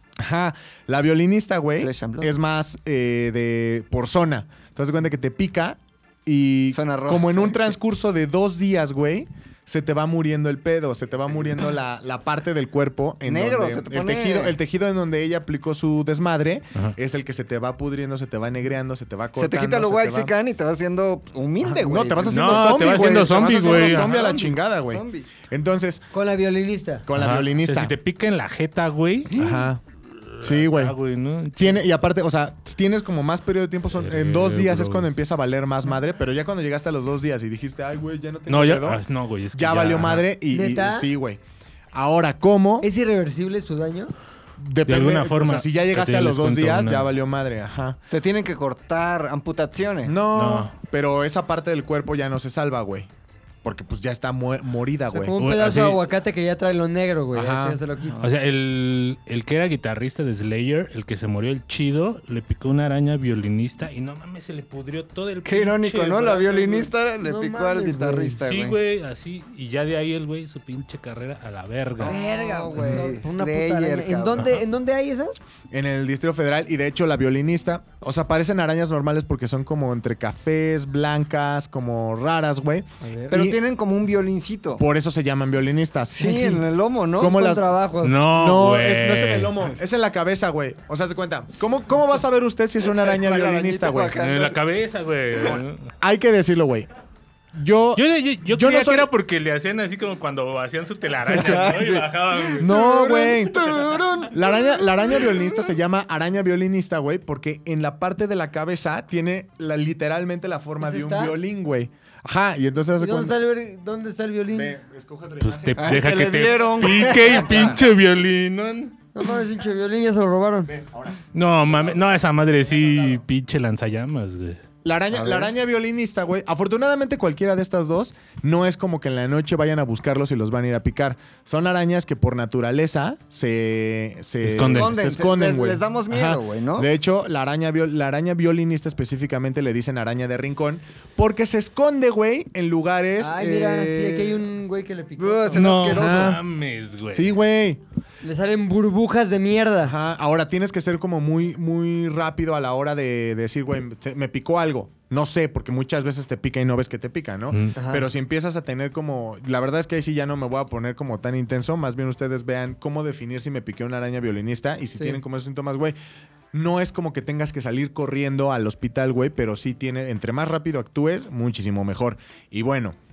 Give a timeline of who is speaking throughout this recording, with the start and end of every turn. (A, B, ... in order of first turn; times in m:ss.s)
0:00.2-0:20.3 A
0:01.8-0:02.3 B
0:06.7-0:07.6 B
0:13.2-0:14.6 B
0:19.4-0:25.3 B
0:21.6-0:26.0 A
0:22.3-0:24.4 C
0:26.1-0:27.0 D
0:27.1-0:27.9 A
0:27.1-0:29.5 C
0:29.3-0:29.7 B
0:29.3-0:29.8 A
0:30.1-0:31.8 C
0:30.4-0:31.0 A
0:31.6-0:39.0 A
0:34.0-0:35.1 C
0:38.5-0:40.2 C
0:39.5-0:41.4 A
0:40.5-0:41.1 D
0:41.9-0:42.9 A
0:42.8-0:44.1 D
0:44.6-0:48.0 A
0:44.8-0:47.1 C
0:48.1-0:50.1 B
0:50.0-0:53.1 A
0:50.3-0:50.7 C
0:53.6-0:55.4 A
0:55.1-0:58.2 D
0:55.4-0:56.0 C
0:57.3-0:57.8 A
0:58.2-1:06.9 C
1:05.4-1:08.8 B
1:06.6-1:08.4 D
1:08.4-1:12.2 C
1:12.0-1:14.5 B
1:12.0-1:15.4 D
1:15.7-1:23.6 A
1:23.0-1:23.3 D
1:23.3-1:24.8 B
1:24.8-1:26.6 A
1:26.2-1:27.4 B
1:26.2-1:26.6 D
1:27.2-1:27.7 A
1:27.2-1:28.2 D
1:28.0-1:29.6 C
1:28.3-1:34.2 A
1:33.0-1:34.6 B
1:34.2-1:35.9 C
1:36.0-1:36.9 A
1:37.5-1:39.1 A
1:37.9-1:42.7 C
1:41.3-1:45.6 B
1:42.6-1:43.7 A
1:44.3-1:53.3 A
1:50.8-1:51.4 D
1:53.0-1:54.7 D
1:54.5-1:57.0 A
1:55.4-1:59.0 C
1:55.8-1:57.8 B
1:59.1-2:00.7 D
2:00.7-2:01.2 A
2:01.3-2:04.6 C
2:04.8-2:24.4 A
2:05.2-2:05.5 B
2:14.4-2:14.9 C
2:14.7-2:16.9 B
2:23.2-2:25.7 D
2:25.2-2:26.4 B
2:25.5-2:27.4 C
2:25.9-2:26.4 A
2:27.1-2:27.8 A
2:28.2-2:29.9 D
2:29.8-2:45.9 A
2:37.7-2:38.0 D
2:46.5-2:52.9 A